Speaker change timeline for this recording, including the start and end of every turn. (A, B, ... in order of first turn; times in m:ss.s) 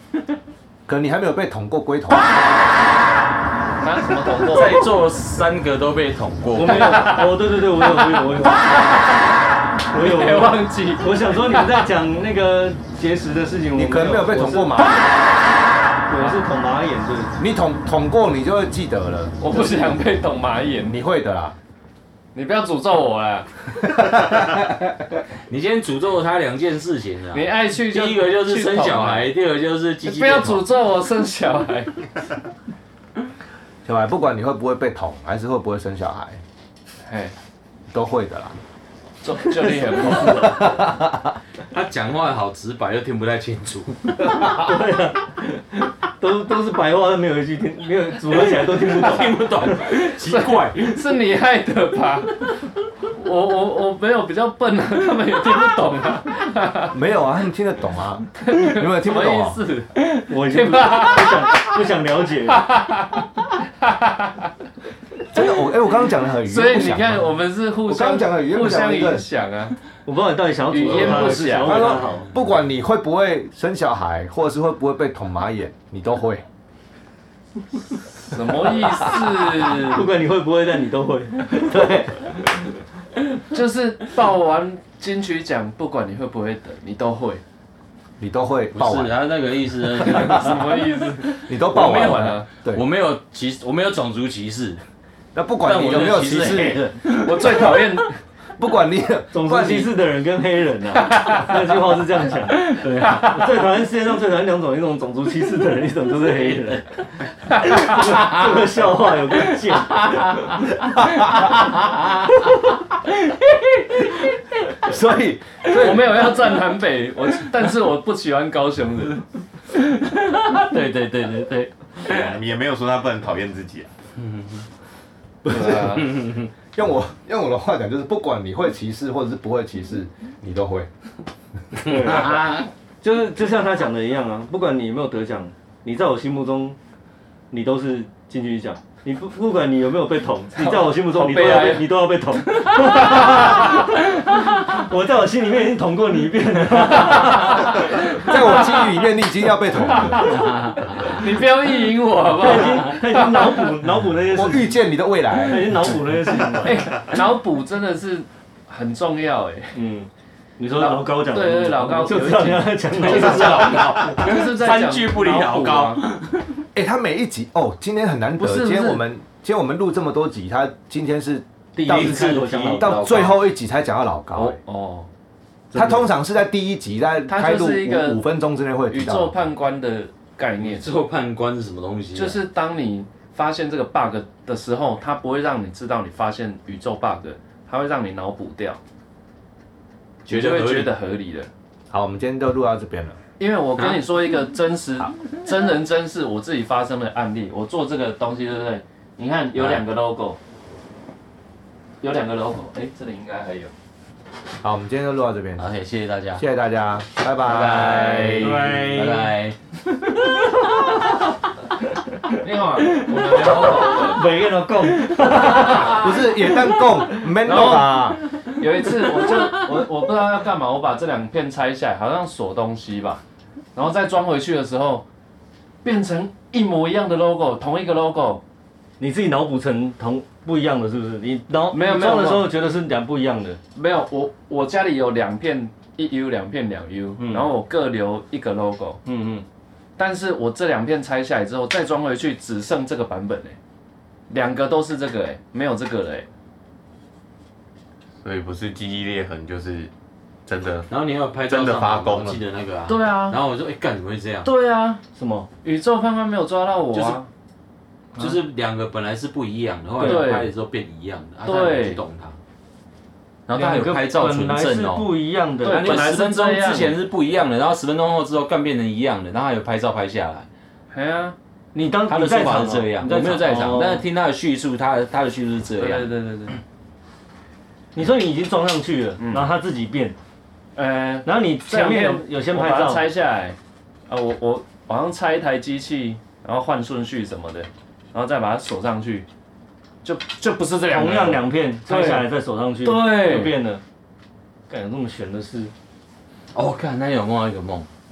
0:00.9-0:02.4 A
0:03.8-0:04.9 B
0:04.4-0:07.2 C
0:06.5-0:08.9 D
0:06.6-0:09.3 B
0:09.9-0:14.8 D
0:09.9-0:11.9 B
0:13.7-0:15.2 A
0:16.1-0:17.4 D
0:17.4-0:19.4 A
0:19.4-0:21.0 B
0:20.9-0:21.6 A
0:22.3-0:23.6 B
0:23.8-0:24.8 A
0:25.5-0:30.7 C
0:27.3-0:29.3 B
0:30.0-0:32.0 B
0:33.8-0:36.4 A
0:37.0-0:37.3 B
0:37.9-0:38.6 A
0:39.2-0:40.6 B
0:40.0-0:41.3 A
0:41.7-0:44.5 C
0:44.4-0:49.4 D
0:48.3-0:51.1 C
0:49.8-0:52.5 B
0:53.1-0:57.0 B
0:56.9-0:59.6 A
0:58.4-1:01.8 B
1:00.3-1:02.7 D
1:02.5-1:04.5 B
1:05.3-1:09.3 A
1:06.3-1:09.8 B
1:10.0-1:12.3 D
1:10.7-1:12.0 B
1:10.8-1:16.4 A
1:18.2-1:20.1 B
1:19.7-1:22.4 D
1:23.5-1:27.4 B
1:28.2-1:29.2 A
1:28.7-1:30.8 C
1:30.0-1:32.5 B
1:30.1-1:30.6 A
1:31.5-1:32.8 A
1:32.7-1:34.8 C
1:35.3-1:36.9 A
1:35.6-1:37.8 C
1:37.0-1:38.2 B
1:38.6-1:40.0 A
1:39.3-1:42.7 D
1:41.0-1:41.8 B
1:42.6-1:43.4 C
1:43.0-1:43.4 B
1:43.2-1:46.9 D
1:47.5-1:50.6 D
1:47.7-1:48.0 B
1:48.0-1:48.6 C
1:49.6-1:54.4 C
1:54.8-1:56.2 A
1:55.7-1:56.4 C
1:55.7-1:59.2 B
1:59.7-2:02.3 C
2:02.0-2:03.9 E
2:04.2-2:04.6 C
2:05.4-2:10.9 A
2:05.5-2:06.2 B
2:06.0-2:06.5 C
2:11.8-2:16.8 D
2:12.1-2:12.7 C
2:17.5-2:27.8 D
2:20.6-2:22.0 B
2:22.5-2:24.0 B
2:27.0-2:29.1 B
2:28.0-2:30.4 A
2:29.7-2:33.7 B
2:30.2-2:31.2 C
2:32.4-2:34.8 D
2:34.2-2:35.9 A
2:35.3-2:36.9 D
2:36.6-2:39.8 B
2:39.7-2:44.0 D
2:40.7-2:46.0 B
2:42.9-2:46.6 C
2:46.7-2:54.6 A
2:48.4-2:49.0 B
2:51.8-2:53.3 D
2:51.8-2:53.4 C
2:54.3-2:55.1 B
2:55.7-2:56.1 D
2:55.7-2:59.3 A
2:57.3-2:58.2 B
2:58.9-3:00.9 B
3:00.6-3:02.4 C
3:02.1-3:08.8 B
3:10.2-3:10.9 C
3:10.3-3:11.5 B
3:11.9-3:13.2 A
3:13.4-3:20.4 B
3:13.8-3:14.0 C
3:19.5-3:19.8 C
3:22.0-3:23.7 B
3:24.6-3:25.6 A
3:25.6-3:26.4 C
3:26.4-3:28.5 A
3:27.5-3:28.6 B
3:27.5-3:31.0 C
3:28.4-3:29.3 D
3:32.3-3:34.3 B
3:32.9-3:34.2 C
3:34.0-3:36.1 D
3:35.1-3:35.8 C
3:35.7-3:38.2 A
3:37.3-3:43.2 B
3:38.9-3:39.8 C
3:43.7-3:45.0 B
3:45.8-3:48.4 B
3:49.0-3:53.6 D
3:51.7-3:52.5 B
3:53.7-3:59.0 B
3:57.2-3:57.5 D
3:59.0-3:59.4 D
4:00.0-4:03.6 B
4:04.3-4:06.3 B
4:08.2-4:09.9 E
4:10.4-4:10.9 E
4:10.9-4:14.5 C
4:11.5-4:12.4 E
4:12.9-4:13.4 B
4:14.4-4:15.0 B
4:15.1-4:15.5 D
4:15.6-4:17.3 B
4:16.9-4:17.2 C
4:18.2-4:22.4 C
4:20.0-4:20.4 D
4:20.0-4:20.5 B
4:21.4-4:22.0 B
4:23.5-4:25.1 C
4:23.5-4:26.2 D
4:25.6-4:26.9 B
4:25.6-4:30.5 C
4:30.9-4:31.4 B
4:31.7-4:34.0 D
4:32.1-4:36.1 C
4:35.8-4:36.6 B
4:37.9-4:40.2 D
4:39.2-4:39.5 B
4:40.8-4:43.6 B
4:41.2-4:43.1 D
4:44.1-4:49.3 B
4:50.0-4:52.3 B
4:50.9-4:53.8 D
4:52.8-4:53.6 B
4:54.7-4:55.7 D
4:56.5-4:57.9 C